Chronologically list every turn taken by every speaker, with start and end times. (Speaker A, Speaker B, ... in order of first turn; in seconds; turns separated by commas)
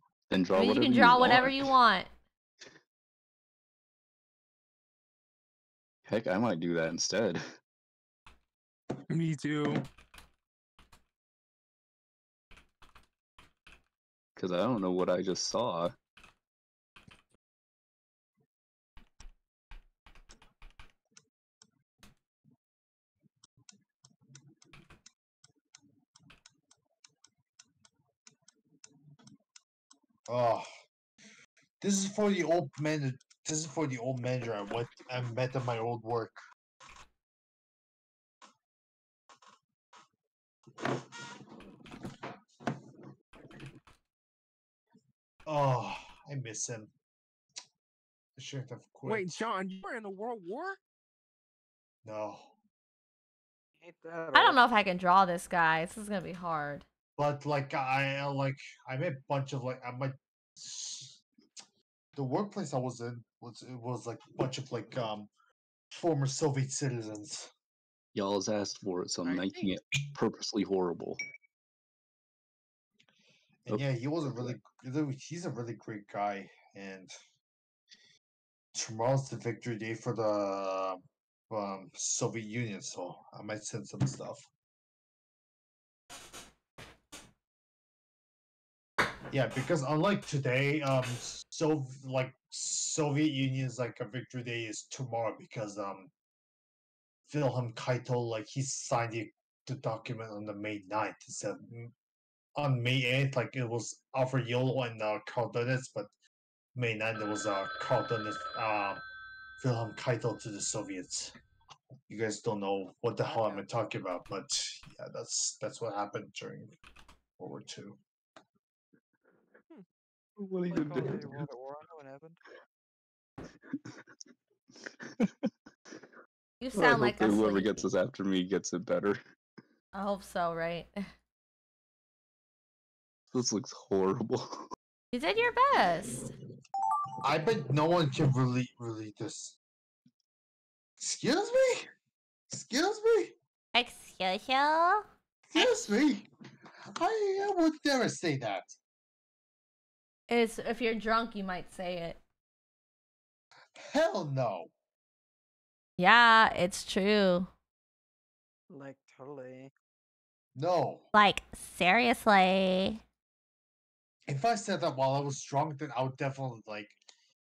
Speaker A: 0.3-1.7, Speaker B: 0.5-2.1, Speaker A: 6.0-7.4, Speaker C: 9.1-9.8, Speaker A: 14.3-15.9, Speaker D: 30.3-30.7, Speaker D: 31.8-36.4, Speaker D: 45.5-46.9, Speaker D: 48.4-49.4, Speaker C: 49.0-50.8, Speaker D: 52.0-52.5, Speaker E: 53.8-54.6, Speaker B: 54.3-56.8, Speaker D: 57.2-61.2, Speaker D: 62.1-65.3, Speaker D: 65.9-67.5, Speaker A: 68.1-71.2, Speaker E: 69.2-69.6, Speaker D: 73.6-77.1, Speaker A: 73.7-74.6, Speaker D: 78.7-84.5, Speaker D: 89.3-96.1, Speaker D: 97.3-101.9, Speaker D: 102.5-106.1, Speaker D: 106.7-109.0, Speaker D: 109.6-111.3, Speaker D: 112.1-116.7, Speaker E: 113.2-113.6, Speaker D: 117.4-118.0, Speaker A: 120.4-121.5, Speaker E: 120.7-122.4, Speaker A: 125.2-125.5, Speaker B: 126.6-127.8, Speaker A: 126.7-129.2, Speaker B: 129.9-131.0, Speaker A: 133.3-134.7, Speaker B: 135.1-136.3, Speaker D: 137.2-139.6, Speaker D: 141.0-141.9, Speaker D: 142.5-143.3, Speaker B: 143.7-145.0, Speaker D: 145.5-146.3, Speaker B: 145.6-145.9, Speaker D: 146.8-148.8, Speaker B: 150.3-152.2, Speaker D: 153.8-154.7, Speaker B: 156.0-157.5, Speaker E: 158.7-159.7, Speaker D: 160.5-161.1, Speaker B: 161.1-163.0, Speaker D: 164.3-166.9